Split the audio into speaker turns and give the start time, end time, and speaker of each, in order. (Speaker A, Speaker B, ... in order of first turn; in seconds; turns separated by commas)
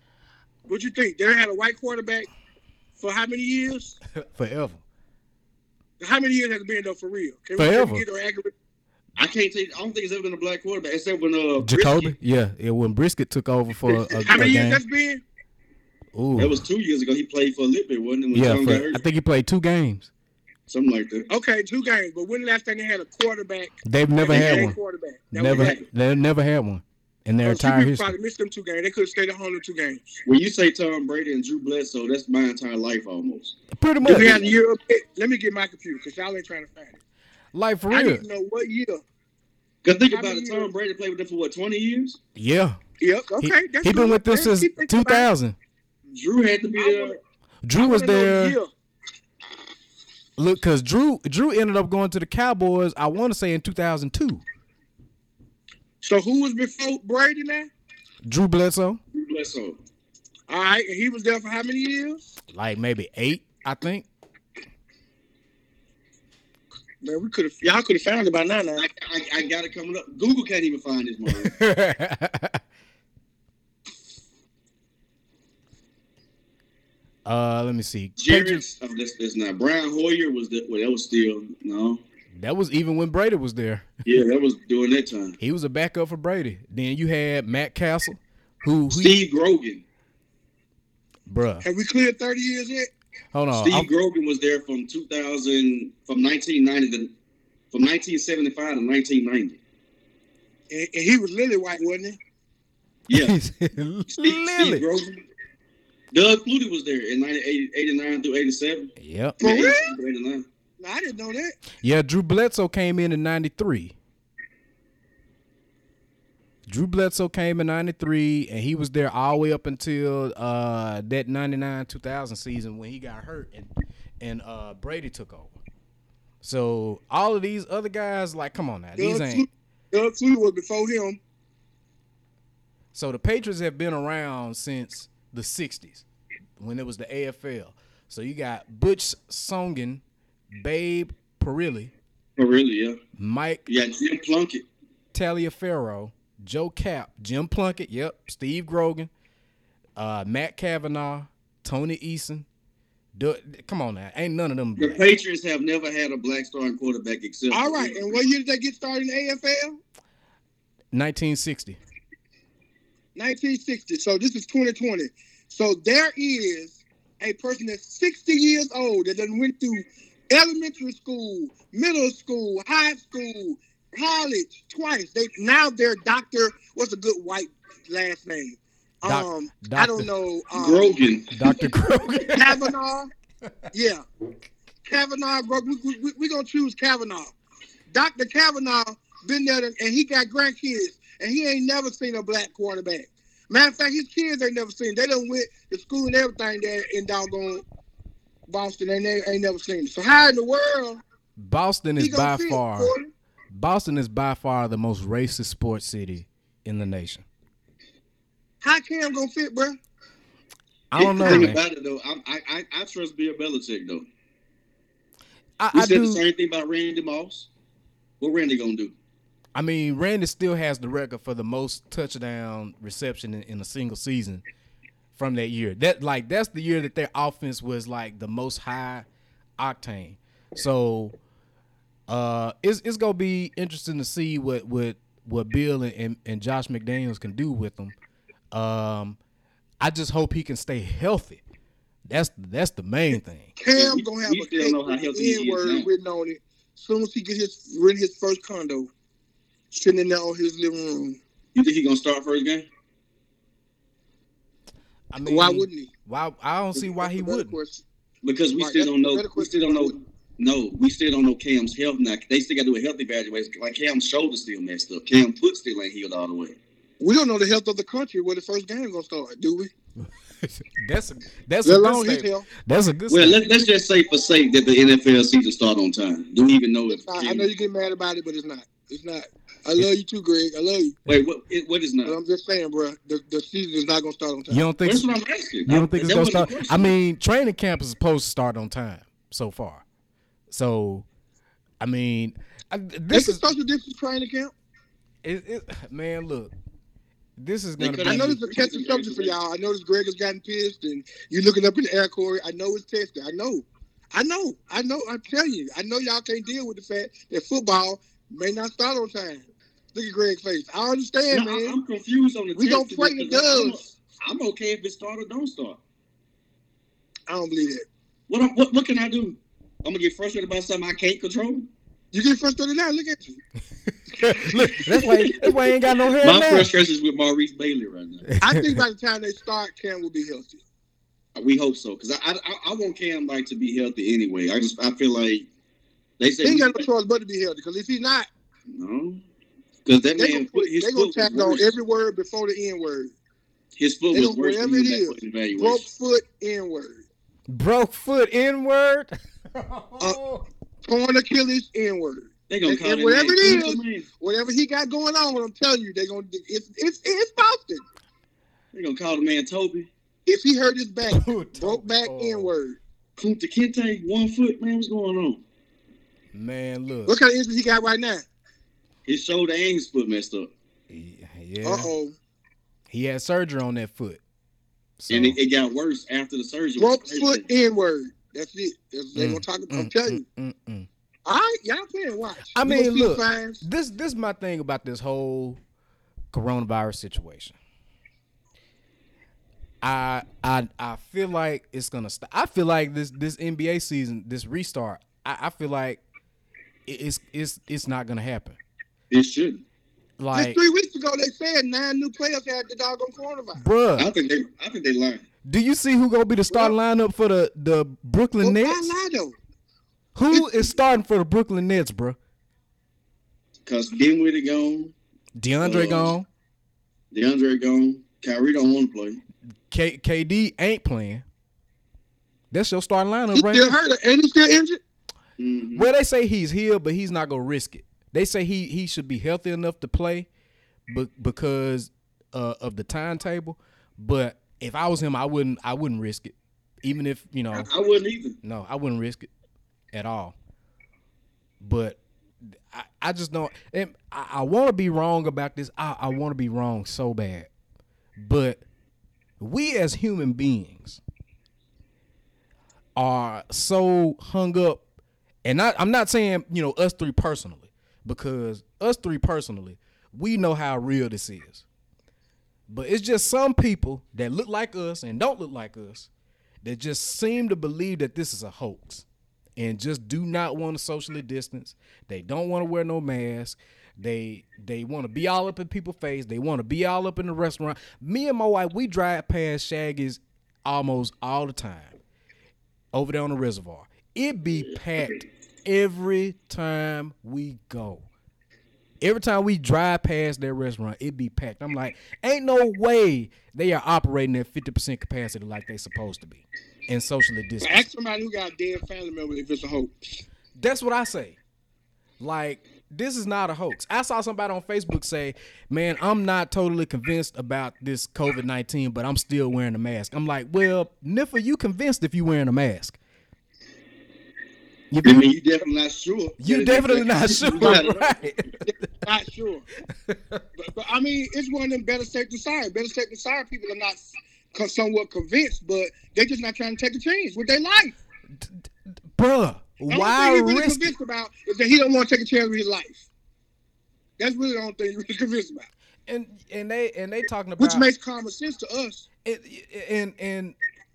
Speaker A: 0.7-2.3, Speaker A: 3.0-4.0, Speaker B: 4.3-4.8, Speaker A: 6.0-8.5, Speaker B: 7.6-8.0, Speaker C: 9.2-12.2, Speaker B: 11.6-14.8, Speaker A: 13.9-15.2, Speaker B: 16.1-16.6, Speaker C: 16.4-19.0, Speaker B: 18.3-20.1, Speaker C: 20.7-21.3, Speaker A: 21.3-25.8, Speaker B: 23.9-24.8, Speaker C: 24.3-24.7, Speaker B: 25.3-28.1, Speaker C: 25.4-25.9, Speaker A: 27.4-30.1, Speaker C: 30.2-34.6, Speaker B: 33.7-34.4, Speaker A: 34.0-37.0, Speaker B: 37.5-38.2, Speaker A: 37.9-39.0, Speaker C: 39.8-42.2, Speaker A: 40.1-40.7, Speaker B: 42.4-42.8, Speaker A: 43.0-45.3, Speaker B: 43.4-45.5, Speaker C: 46.1-47.2, Speaker A: 46.8-47.2, Speaker B: 47.6-48.6, Speaker A: 47.8-48.7, Speaker B: 50.4-54.4, Speaker A: 56.0-57.7, Speaker B: 58.2-59.0, Speaker C: 59.1-59.8, Speaker A: 60.5-62.2, Speaker B: 62.5-64.1, Speaker A: 67.0-68.9, Speaker C: 68.8-71.5, Speaker B: 71.3-72.6, Speaker B: 77.2-78.6, Speaker C: 78.2-82.0, Speaker B: 82.3-83.9, Speaker C: 84.0-85.4, Speaker B: 85.4-89.2, Speaker C: 88.9-89.8, Speaker B: 91.3-91.6, Speaker A: 91.6-92.9, Speaker B: 93.3-93.9, Speaker C: 93.6-97.1, Speaker C: 97.7-99.6, Speaker A: 100.7-102.2, Speaker C: 103.1-103.3, Speaker B: 103.1-104.9, Speaker C: 104.2-105.2, Speaker C: 106.1-110.5, Speaker B: 109.0-109.4, Speaker A: 109.4-109.9, Speaker A: 110.8-111.5, Speaker B: 111.8-113.9, Speaker B: 116.7-123.7, Speaker B: 124.2-125.5, Speaker B: 126.4-129.5, Speaker A: 129.0-131.2, Speaker B: 132.9-136.1, Speaker B: 136.6-140.0, Speaker B: 140.5-141.9, Speaker C: 142.4-143.0, Speaker B: 143.2-143.7, Speaker C: 143.7-144.7, Speaker B: 145.1-149.1, Speaker B: 150.0-152.5, Speaker B: 153.2-155.0, Speaker C: 154.8-158.2, Speaker A: 157.5-159.8, Speaker B: 160.9-161.8, Speaker A: 163.2-181.0, Speaker B: 179.1-180.1, Speaker C: 180.5-181.3, Speaker B: 181.3-182.8, Speaker A: 182.3-183.1, Speaker A: 183.7-184.0, Speaker A: 184.9-187.3, Speaker A: 187.9-197.6, Speaker A: 198.5-201.0, Speaker B: 201.4-202.9, Speaker A: 202.0-203.1, Speaker B: 203.5-207.2, Speaker A: 208.6-209.8, Speaker B: 210.9-211.6, Speaker C: 211.0-214.1, Speaker A: 211.2-211.5, Speaker B: 215.6-216.2, Speaker C: 215.7-217.5, Speaker C: 218.2-218.9, Speaker B: 219.6-224.4, Speaker B: 225.1-229.1, Speaker B: 229.6-231.1, Speaker B: 232.1-237.9, Speaker B: 238.5-239.2, Speaker B: 239.8-241.4, Speaker B: 242.1-243.5, Speaker A: 243.6-248.9, Speaker C: 243.7-245.9, Speaker A: 249.7-251.2, Speaker C: 251.5-252.7, Speaker B: 255.1-257.5, Speaker A: 255.3-255.9, Speaker A: 256.8-257.8, Speaker C: 258.2-266.6, Speaker A: 258.6-260.0, Speaker A: 267.0-269.7, Speaker B: 270.4-273.4, Speaker A: 271.6-272.5, Speaker C: 273.1-277.5, Speaker A: 276.9-281.0, Speaker C: 281.1-282.2, Speaker A: 282.1-284.6, Speaker B: 284.5-285.1, Speaker C: 284.8-286.9, Speaker B: 285.7-289.8, Speaker B: 290.5-291.1, Speaker B: 291.8-293.4, Speaker A: 293.1-294.5, Speaker B: 295.2-296.5, Speaker B: 297.4-298.4, Speaker C: 297.8-299.4, Speaker A: 298.0-311.8, Speaker C: 311.3-315.8, Speaker A: 312.6-313.9, Speaker A: 317.3-317.9, Speaker C: 318.3-321.7, Speaker A: 322.1-323.4, Speaker B: 324.1-326.7, Speaker C: 326.2-328.2, Speaker B: 328.3-328.8, Speaker A: 328.4-330.6, Speaker C: 331.3-335.5, Speaker C: 336.2-336.9, Speaker A: 336.4-338.3, Speaker C: 338.7-339.2, Speaker C: 339.8-341.7, Speaker A: 340.2-343.1, Speaker C: 343.8-345.8, Speaker A: 344.1-347.0, Speaker B: 347.5-350.4, Speaker A: 350.8-357.8, Speaker C: 352.5-354.1, Speaker C: 358.7-359.9, Speaker A: 360.2-362.8, Speaker B: 361.1-362.5, Speaker C: 363.2-365.4, Speaker B: 366.3-367.1, Speaker A: 367.1-368.2, Speaker C: 369.1-370.5, Speaker B: 370.9-371.9, Speaker A: 371.6-372.1, Speaker B: 372.9-374.2, Speaker B: 375.0-375.4, Speaker C: 375.1-377.5, Speaker A: 376.8-380.2, Speaker B: 379.1-380.9, Speaker A: 381.2-383.6, Speaker B: 382.5-385.6, Speaker B: 386.3-387.6, Speaker B: 389.8-396.0, Speaker B: 396.9-398.6, Speaker C: 399.1-399.6, Speaker B: 400.2-400.6, Speaker A: 400.3-403.6, Speaker B: 403.6-404.1, Speaker C: 404.0-405.2, Speaker B: 405.4-409.0, Speaker A: 408.4-409.4, Speaker B: 410.1-412.2, Speaker A: 410.3-410.8, Speaker C: 413.6-414.9, Speaker B: 415.4-416.3, Speaker C: 415.6-416.1, Speaker C: 417.1-419.2, Speaker B: 419.7-421.2, Speaker B: 422.5-423.8, Speaker A: 423.3-424.8, Speaker C: 425.4-425.9, Speaker B: 425.8-430.3, Speaker B: 430.9-437.7, Speaker C: 437.5-438.4, Speaker B: 438.4-439.3, Speaker B: 439.9-440.3, Speaker B: 441.6-442.0, Speaker B: 442.5-447.5, Speaker B: 448.2-448.6, Speaker B: 449.4-451.0, Speaker B: 452.9-454.8, Speaker B: 455.4-461.6, Speaker B: 462.7-466.1, Speaker B: 466.6-469.1, Speaker B: 469.6-482.0, Speaker B: 482.9-488.1, Speaker B: 489.0-497.8, Speaker A: 497.6-499.9, Speaker B: 500.6-501.4, Speaker B: 502.2-513.0, Speaker B: 514.9-515.3, Speaker C: 515.0-518.5, Speaker B: 516.4-518.7, Speaker A: 517.5-517.9, Speaker A: 518.7-519.7, Speaker B: 520.1-520.4, Speaker A: 520.6-524.0, Speaker A: 524.5-528.0, Speaker B: 529.1-530.9, Speaker A: 529.9-533.0, Speaker A: 534.2-535.7, Speaker B: 536.1-537.9, Speaker A: 537.6-539.0, Speaker B: 539.2-540.6